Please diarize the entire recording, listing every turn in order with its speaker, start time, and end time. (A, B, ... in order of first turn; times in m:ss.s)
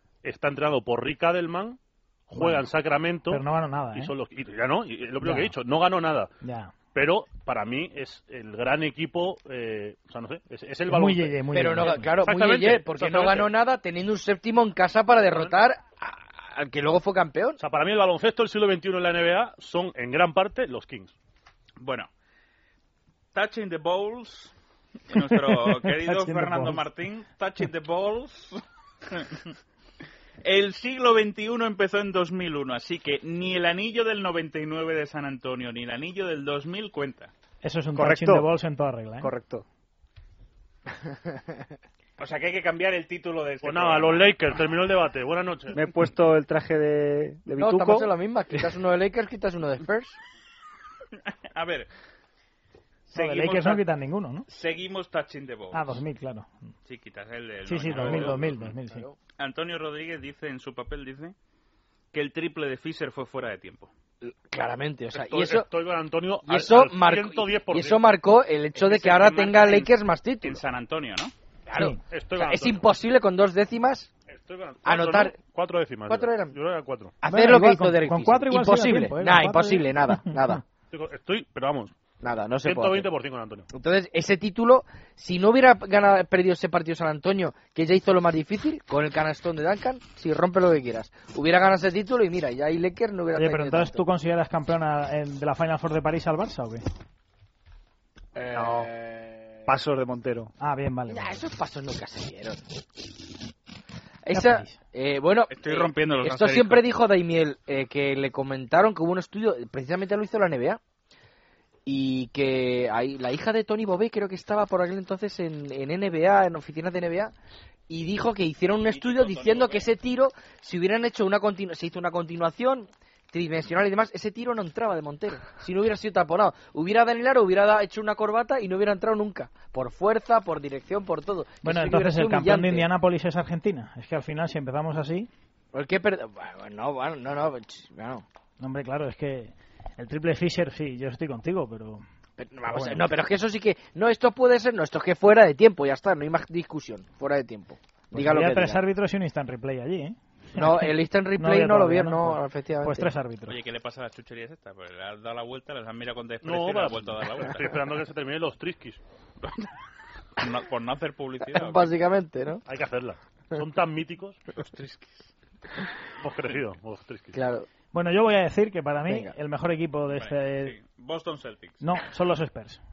0:00.2-0:03.4 A
0:02.4-0:02.6 B
0:03.3-0:04.1 B
0:03.9-0:06.3 A
0:05.2-0:05.5 B
0:06.4-0:06.7 B
0:06.9-0:11.6 A
0:10.9-0:12.1 B
0:11.5-0:17.6 C
0:12.1-0:13.5 A
0:17.6-0:21.1 A
0:21.8-0:22.1 D
0:23.3-0:24.5 D
0:25.1-0:29.5 D
0:25.5-0:26.8 B
0:30.4-0:37.3 D
0:37.6-0:39.3 B
0:38.0-0:38.5 E
0:39.2-0:39.6 E
0:42.2-0:44.3 D
0:43.6-0:45.8 A
0:45.7-0:48.1 E
0:47.5-0:50.2 C
0:51.5-0:51.9 D
0:53.1-0:53.8 D
0:53.1-0:54.5 B
0:54.5-0:56.0 D
0:55.7-0:56.7 B
0:56.8-0:58.7 D
0:57.6-0:59.0 B
0:58.0-0:59.2 C
0:59.4-1:01.3 D
1:02.1-1:03.9 D
1:04.2-1:05.7 C
1:05.1-1:08.1 A
1:06.4-1:10.6 C
1:08.8-1:11.3 D
1:11.7-1:14.1 C
1:11.7-1:12.0 B
1:12.1-1:12.8 A
1:14.3-1:17.1 A
1:14.8-1:15.4 C
1:16.1-1:16.6 C
1:17.2-1:20.6 C
1:17.2-1:20.4 B
1:20.9-1:21.9 A
1:22.2-1:23.1 C
1:22.6-1:23.7 A
1:23.7-1:34.0 C
1:33.3-1:36.8 B
1:38.4-1:39.5 C
1:38.5-1:38.9 E
1:39.7-1:40.5 E
1:40.6-1:41.4 B
1:41.1-1:42.6 C
1:44.2-1:50.8 C
1:44.3-1:44.8 B
1:45.5-1:46.8 D
1:51.8-1:57.3 C
1:57.9-2:12.9 C
1:58.9-1:59.8 D
2:11.6-2:15.3 B
2:15.7-2:18.2 C
2:18.6-2:22.0 B
2:22.4-2:28.8 C
2:22.7-2:23.1 B
2:28.1-2:33.6 B
2:30.5-2:33.1 C
2:33.5-2:37.8 D
2:36.4-2:39.0 A
2:40.4-2:42.0 D
2:41.4-2:42.6 C
2:42.7-2:44.4 A
2:44.6-2:45.2 D
2:46.2-2:47.4 A
2:47.3-2:47.7 C
2:47.9-2:50.7 B
2:49.1-2:49.3 C
2:50.1-2:51.8 D
2:51.8-2:52.8 B